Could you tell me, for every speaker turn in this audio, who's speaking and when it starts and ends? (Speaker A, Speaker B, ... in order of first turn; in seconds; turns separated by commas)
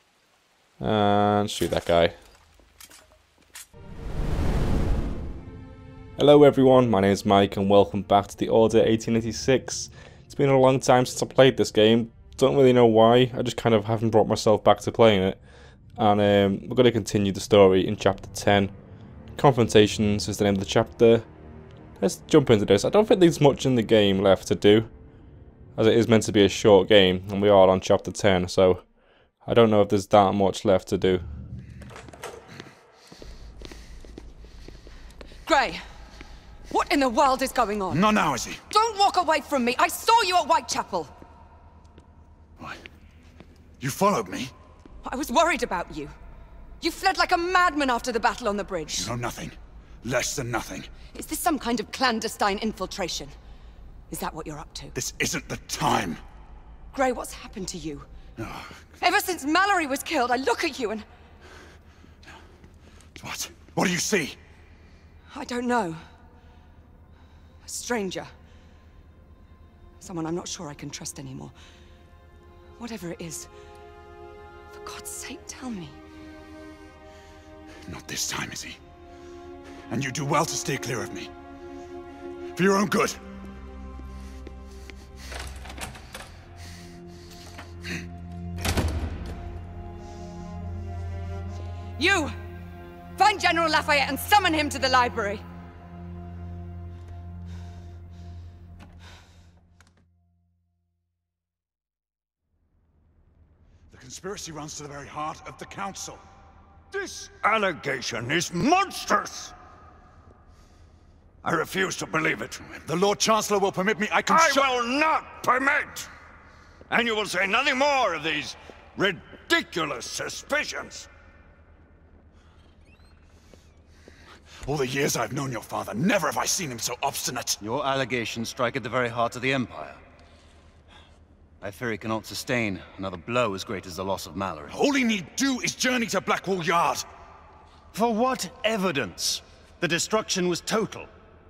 Speaker A: 0.8-2.1, Speaker A: 6.2-15.4, Speaker A: 15.9-18.7, Speaker A: 19.3-21.3, Speaker A: 22.0-24.9, Speaker A: 25.8-31.2, Speaker B: 35.4-35.8, Speaker B: 36.7-38.0, Speaker C: 37.9-38.6, Speaker B: 38.7-41.1, Speaker C: 43.8-44.5, Speaker B: 45.0-46.1, Speaker B: 46.8-49.1, Speaker C: 48.9-50.9, Speaker B: 51.1-53.3, Speaker B: 54.1-54.9, Speaker C: 54.9-56.2, Speaker B: 56.9-58.1, Speaker C: 58.4-58.9, Speaker B: 59.0-61.0, Speaker C: 63.1-64.4, Speaker B: 65.3-66.0, Speaker B: 67.6-68.3, Speaker B: 70.0-71.5, Speaker B: 72.8-73.5, Speaker B: 74.7-76.0, Speaker C: 77.8-78.8, Speaker C: 79.9-81.3, Speaker C: 82.5-83.2, Speaker B: 92.0-92.3, Speaker B: 93.2-95.4, Speaker C: 103.9-106.2, Speaker D: 107.0-109.5, Speaker D: 111.4-112.6, Speaker C: 112.6-114.7, Speaker D: 114.3-116.1, Speaker D: 116.9-121.1, Speaker C: 124.6-127.6, Speaker E: 127.6-130.0, Speaker E: 131.6-134.8, Speaker C: 134.7-137.1, Speaker E: 137.9-141.1